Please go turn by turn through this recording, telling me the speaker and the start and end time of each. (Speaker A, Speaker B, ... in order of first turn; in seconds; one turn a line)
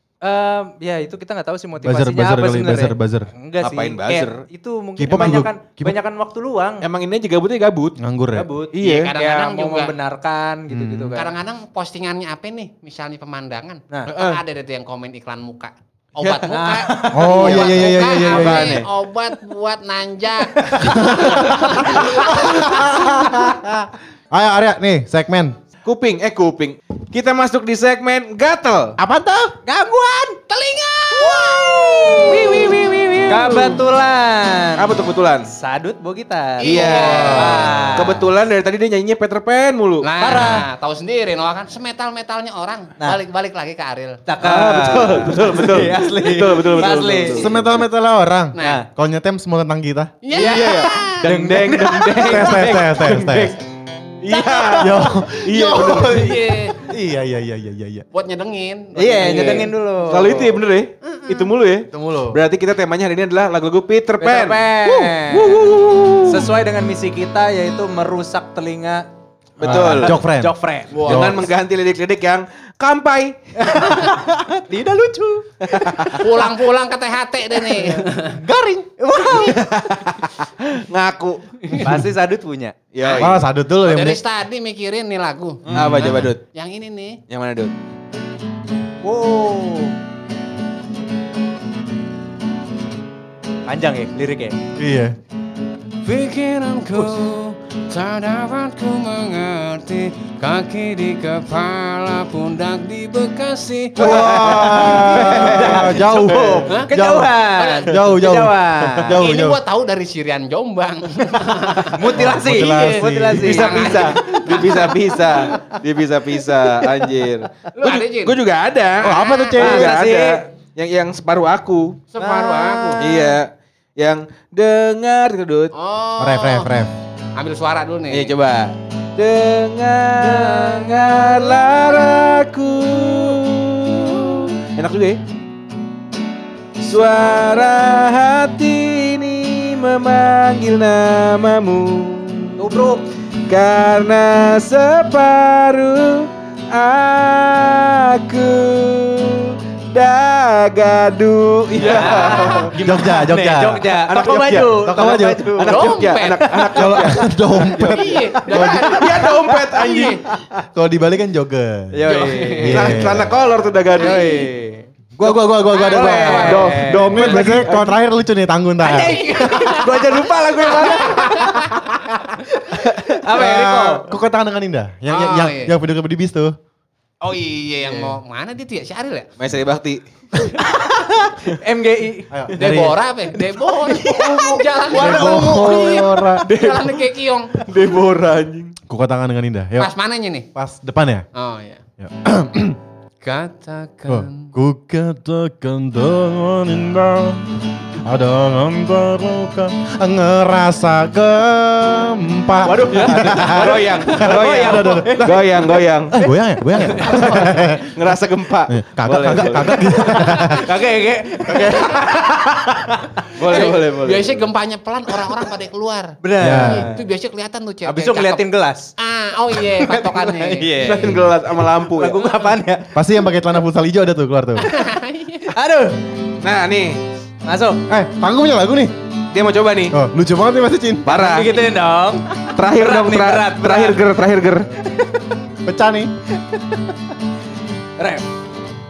Speaker A: 0.2-6.8
Speaker B: 1.8-3.3
Speaker C: 3.6-4.4
Speaker B: 5.0-6.0
Speaker C: 5.1-5.4
Speaker C: 6.8-8.0
Speaker B: 8.0-8.5
Speaker A: 8.3-11.3
Speaker C: 8.7-9.1
Speaker D: 8.8-9.9
Speaker B: 10.7-11.2
Speaker D: 11.1-23.5
Speaker C: 14.1-14.4
Speaker C: 16.2-16.5
Speaker A: 16.5-17.8
Speaker B: 17.1-18.8
Speaker C: 17.2-18.9
Speaker A: 20.6-21.5
Speaker B: 20.8-25.6
Speaker C: 25.8-28.9
Speaker B: 29.0-29.5
Speaker A: 29.6-30.4
Speaker D: 30.5-32.8
Speaker A: 31.2-32.7
Speaker C: 31.6-33.8
Speaker A: 33.3-35.0
Speaker C: 34.8-35.5
Speaker A: 35.5-38.2
Speaker D: 36.6-37.7
Speaker C: 36.6-40.1
Speaker B: 37.0-37.7
Speaker D: 40.0-44.2
Speaker A: 40.2-40.6
Speaker A: 44.2-47.5
Speaker C: 44.4-47.6
Speaker B: 47.3-50.2
Speaker D: 48.5-48.8
Speaker A: 48.6-48.9
Speaker D: 50.2-51.3
Speaker A: 50.3-53.3
Speaker C: 50.3-53.5
Speaker B: 52.1-53.5
Speaker C: 54.2-56.3
Speaker B: 54.7-58.0
Speaker D: 55.8-56.9
Speaker D: 58.1-59.7
Speaker A: 59.0-60.6
Speaker C: 59.2-66.5
Speaker D: 61.0-61.5
Speaker B: 61.9-62.4
Speaker A: 64.2-65.7
Speaker A: 66.2-69.1
Speaker C: 69.6-70.2
Speaker B: 69.6-71.4
Speaker A: 69.6-71.1
Speaker D: 70.9-71.4
Speaker C: 71.0-73.8
Speaker A: 73.6-76.2
Speaker C: 75.7-76.2
Speaker D: 76.1-78.4
Speaker A: 77.8-78.0
Speaker B: 78.3-78.9
Speaker A: 79.0-79.9
Speaker C: 79.2-81.7
Speaker A: 81.7-83.2
Speaker C: 82.9-83.4
Speaker B: 83.2-84.2
Speaker D: 83.8-87.2
Speaker C: 85.7-86.4
Speaker B: 85.7-86.2
Speaker C: 87.3-87.7
Speaker A: 89.0-89.9
Speaker A: 93.7-94.6
Speaker B: 94.8-95.1
Speaker D: 96.0-105.7
Speaker A: 96.9-97.3
Speaker C: 104.0-106.6
Speaker B: 104.0-109.6
Speaker A: 104.1-109.2
Speaker D: 107.6-107.9
Speaker D: 109.1-112.2
Speaker A: 111.8-114.5
Speaker B: 112.1-114.0
Speaker D: 112.7-115.6
Speaker C: 113.5-122.0
Speaker D: 117.7-118.3
Speaker B: 119.0-119.8
Speaker D: 119.0-120.0
Speaker A: 119.6-120.4
Speaker D: 122.1-123.4
Speaker A: 122.2-123.0
Speaker C: 123.0-125.7
Speaker D: 125.7-126.7
Speaker B: 126.2-126.9
Speaker D: 127.3-128.3
Speaker C: 128.1-135.2
Speaker C: 136.8-142.6
Speaker A: 142.6-143.1
Speaker C: 143.5-152.8
Speaker A: 151.7-155.9
Speaker B: 151.9-153.9
Speaker D: 152.1-152.6
Speaker C: 153.8-154.9
Speaker B: 154.5-155.5
Speaker C: 155.6-160.2
Speaker D: 155.6-157.0
Speaker B: 156.7-159.0
Speaker D: 157.9-160.2
Speaker A: 158.3-158.9
Speaker B: 160.7-163.4
Speaker A: 161.9-162.9
Speaker D: 162.1-163.1
Speaker C: 162.7-164.3
Speaker D: 163.9-164.5
Speaker A: 163.9-164.9
Speaker B: 165.2-169.5
Speaker D: 165.7-166.7
Speaker A: 165.9-167.6
Speaker C: 166.1-168.0
Speaker A: 168.8-174.1
Speaker D: 168.9-171.9
Speaker B: 173.3-176.5
Speaker D: 175.1-175.7
Speaker D: 177.2-179.3
Speaker A: 177.8-178.2
Speaker C: 179.4-180.0
Speaker A: 180.4-182.5
Speaker B: 182.3-182.9
Speaker D: 182.5-187.5
Speaker A: 183.6-185.9
Speaker C: 184.1-188.8
Speaker B: 184.9-186.5
Speaker B: 188.9-189.9
Speaker D: 189.8-190.5
Speaker B: 190.5-191.2
Speaker D: 191.3-191.8
Speaker B: 192.0-192.8
Speaker D: 193.2-194.5
Speaker B: 194.1-205.3
Speaker A: 202.6-205.8
Speaker C: 202.8-206.2
Speaker B: 206.1-208.0
Speaker A: 206.8-207.3
Speaker D: 207.0-207.7
Speaker C: 207.1-210.1
Speaker B: 208.7-210.7
Speaker A: 209.7-213.7
Speaker D: 210.2-210.7
Speaker D: 211.6-212.0
Speaker C: 213.3-214.5
Speaker D: 213.4-218.4
Speaker A: 216.2-217.0
Speaker B: 216.4-216.9
Speaker A: 217.8-218.9
Speaker D: 219.0-220.9
Speaker A: 219.5-221.2
Speaker C: 220.8-222.2
Speaker A: 221.8-222.9
Speaker B: 222.9-224.7
Speaker D: 224.6-225.5
Speaker A: 225.4-226.0
Speaker C: 226.4-227.0
Speaker A: 227.4-227.8
Speaker B: 227.9-228.9
Speaker C: 229.3-230.0
Speaker B: 229.9-231.1
Speaker C: 231.0-231.6
Speaker A: 231.1-234.2
Speaker C: 232.5-234.7
Speaker A: 234.7-235.3
Speaker B: 235.6-236.1
Speaker A: 236.4-236.9
Speaker A: 238.0-238.2